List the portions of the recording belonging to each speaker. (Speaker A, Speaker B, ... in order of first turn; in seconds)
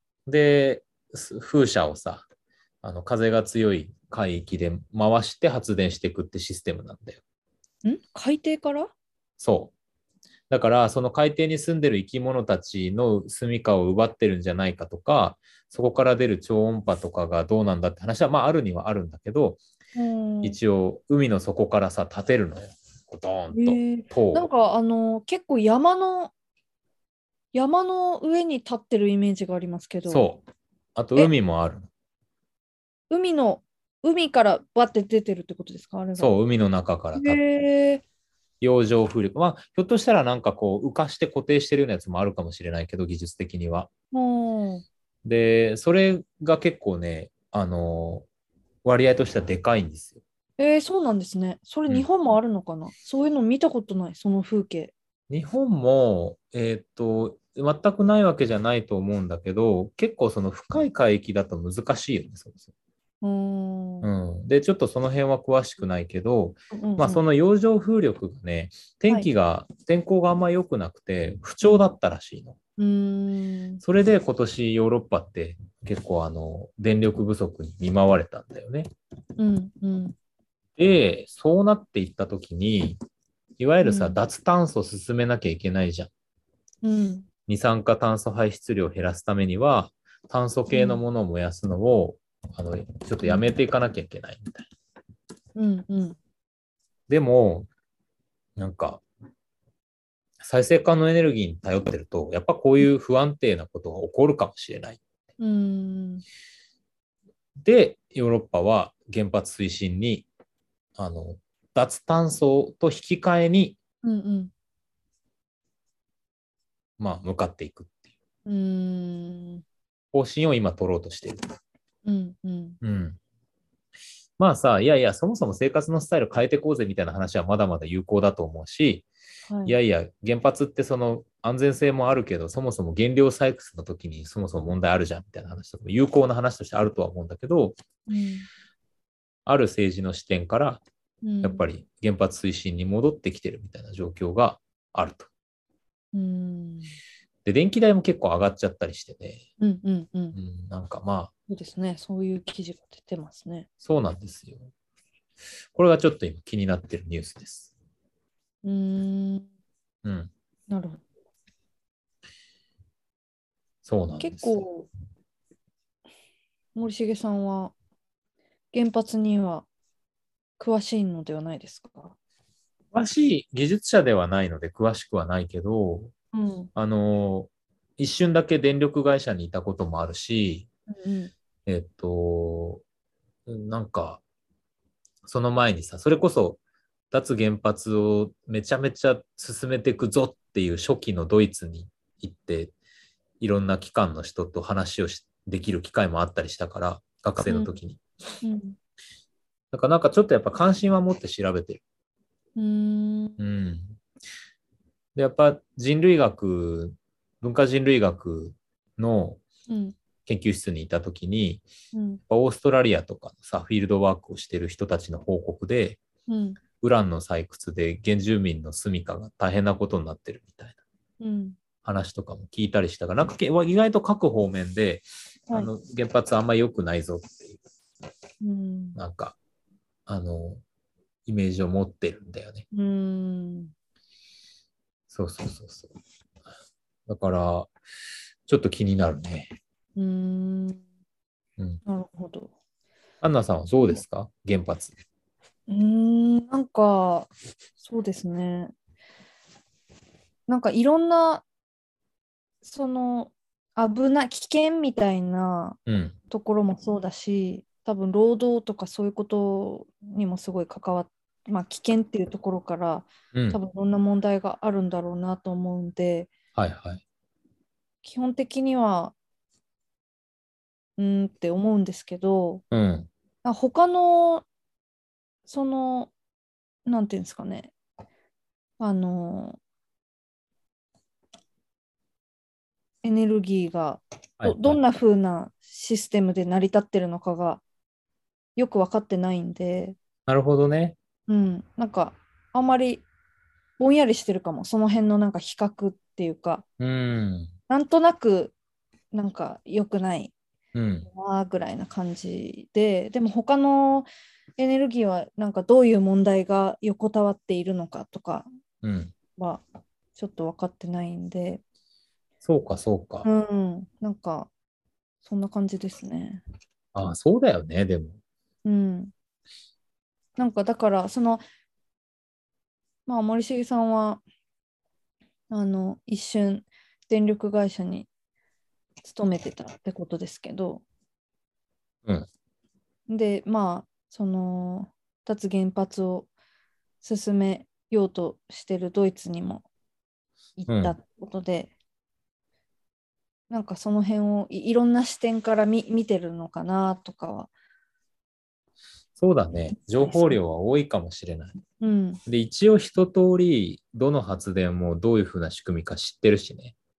Speaker A: 0.3-2.2, 2.8-7.2, 9.4-9.7, 10.5-19.6, 20.4-24.4, 30.1-30.4, 30.9-31.9, 36.1-37.4, 38.6-43.9, 45.2-48.2, 48.8-50.2, 55.3-62.7, 64.0-72.6, 73.8-78.9, 80.8-83.0, 83.6-86.1, 87.5-94.7, 97.1-97.7, 98.6-99.0, 100.4-105.0, 107.6-110.3, 111.0-113.8, 117.0-118.0, 120.1-121.4, 122.8-123.2, 124.4-129.1, 129.7-137.8, 139.4-140.8, 141.4-145.3, 147.4-149.4, 150.3-151.3, 153.8-154.7, 155.7-157.7, 160.0-160.3, 163.8-164.7, 172.9-176.1, 176.7-180.7, 181.7-182.8, 183.5-184.2, 185.2-186.6, 187.1-192.7, 193.4-198.0, 199.7-201.8, 203.4-204.0, 205.2-209.4, 210.2-211.6, 212.3-216.0, 216.8-220.8, 221.8-227.6, 228.9-229.3, 230.1-230.6, 231.2-232.6, 235.1-235.9, 237.1-237.7, 238.5-239.5, 243.2-244.9, 255.9-256.1, 263.3-263.6, 266.6-267.0, 272.7-273.1, 284.4-284.8, 290.3-291.0, 296.8-297.5, 300.7-301.1, 308.8-309.1, 312.4-313.3, 316.9-318.2, 340.7-340.9, 349.2-351.6, 352.2-356.7
Speaker B: 7.8-8.9, 19.9-20.6, 23.5-26.3, 27.5-30.2, 33.1-36.4, 37.1-38.0, 44.1-44.8, 50.6-54.9, 63.2-64.1, 66.7-67.2, 72.8-73.8, 79.4-80.1, 83.8-84.2, 86.8-87.2, 90.7-91.0, 95.5-96.2, 105.4-106.2, 114.0-114.5, 118.5-119.6, 122.0-122.8, 129.5-129.8, 138.1-138.5, 141.2-141.6, 146.1-146.9, 149.6-150.3, 151.5-153.7, 158.6-159.5, 160.7-161.0, 164.2-164.9, 166.8-167.7, 168.7-169.7, 170.6-172.1, 176.3-176.7, 180.9-181.3, 198.4-198.8, 202.6-203.4, 209.7-209.9, 211.9-212.2, 216.3-216.6, 221.2-221.6, 228.4-229.0, 232.7-233.7, 239.9-240.8, 241.8-242.5, 245.7-248.7, 250.5-251.4, 252.6-255.8, 256.3-266.3, 268.0-269.1, 271.0-272.6, 273.4-274.4, 275.5-276.1, 276.9-277.7, 278.8-279.6, 283.0-287.6, 288.6-289.9, 291.3-293.0, 293.8-296.6, 297.7-298.5, 299.1-300.3, 301.1-308.5, 309.4-309.6, 310.1-311.6, 313.2-314.5, 315.2-316.4, 318.6-319.1, 320.4-321.4, 323.1-324.2, 325.5-328.1, 329.0-330.8, 333.1-336.3, 337.0-339.6, 340.6-341.7, 343.5-347.5, 350.0-350.4, 351.8-352.2